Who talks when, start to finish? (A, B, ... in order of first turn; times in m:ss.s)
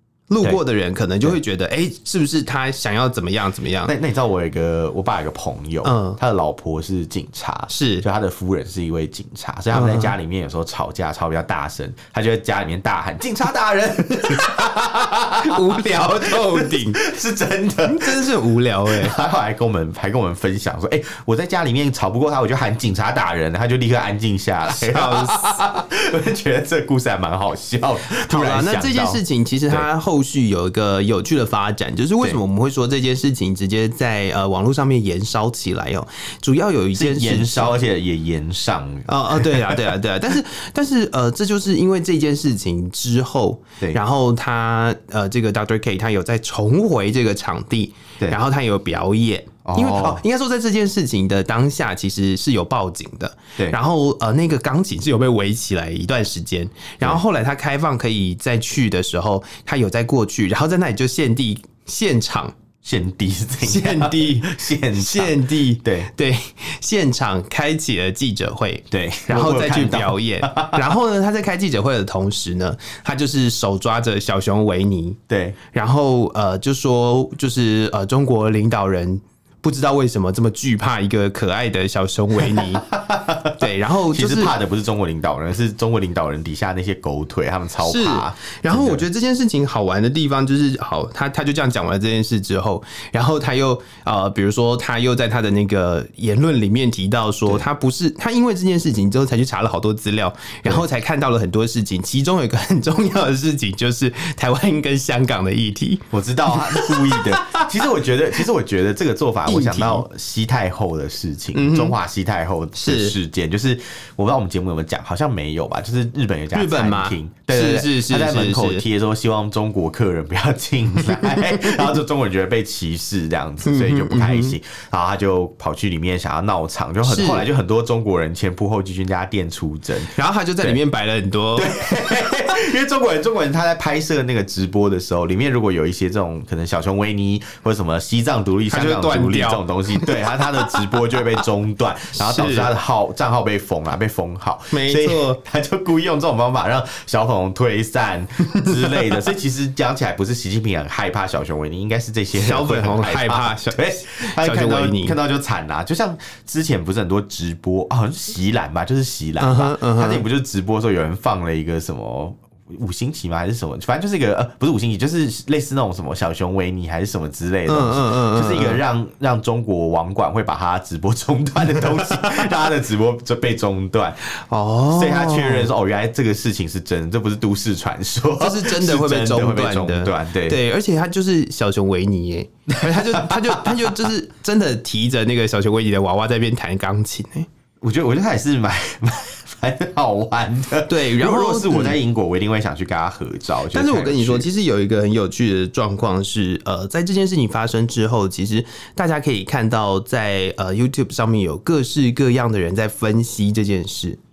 0:00.3-0:03.9 A
0:03.8-0:18.3 B
0:05.8-0:06.2 A
0:07.7-0:08.0 A
0:09.7-0:10.1 A
0:14.2-0:17.0 A
0:17.8-0:19.2 A
0:18.8-0:29.8 B
0:24.7-0:25.6 A
0:28.2-0:37.8 A
0:36.9-0:39.9 B
0:39.1-1:02.5 A
0:49.6-0:50.2 B
1:02.8-1:06.1 B
1:03.6-1:15.2 A
1:08.9-1:10.8 B
1:15.3-1:15.6 B
1:15.7-1:22.9 A
1:22.5-1:29.0 B
1:23.5-1:24.5 A
1:27.8-1:47.7 A
1:46.1-2:10.8 B
1:49.4-1:50.0 A
1:51.5-1:52.0 A
1:52.7-1:53.1 A
1:56.5-1:58.8 A
2:01.0-2:02.0 A
2:03.6-2:04.5 A
2:07.0-2:07.5 A
2:10.1-2:11.7 A
2:11.5-2:54.2 B
2:18.7-2:20.8 A
2:22.1-2:22.7 A
2:24.7-2:25.4 A
2:28.6-2:29.1 A
2:32.3-2:35.2 A
2:39.4-2:40.2 A
2:47.7-2:48.8 A
2:51.7-2:52.5 A
2:54.3-2:55.7 A
2:54.9-3:00.6 B
2:58.4-3:07.5 A
3:02.7-3:04.0 B
3:07.8-3:14.5 B
3:10.9-3:12.0 A
3:13.7-3:24.2 A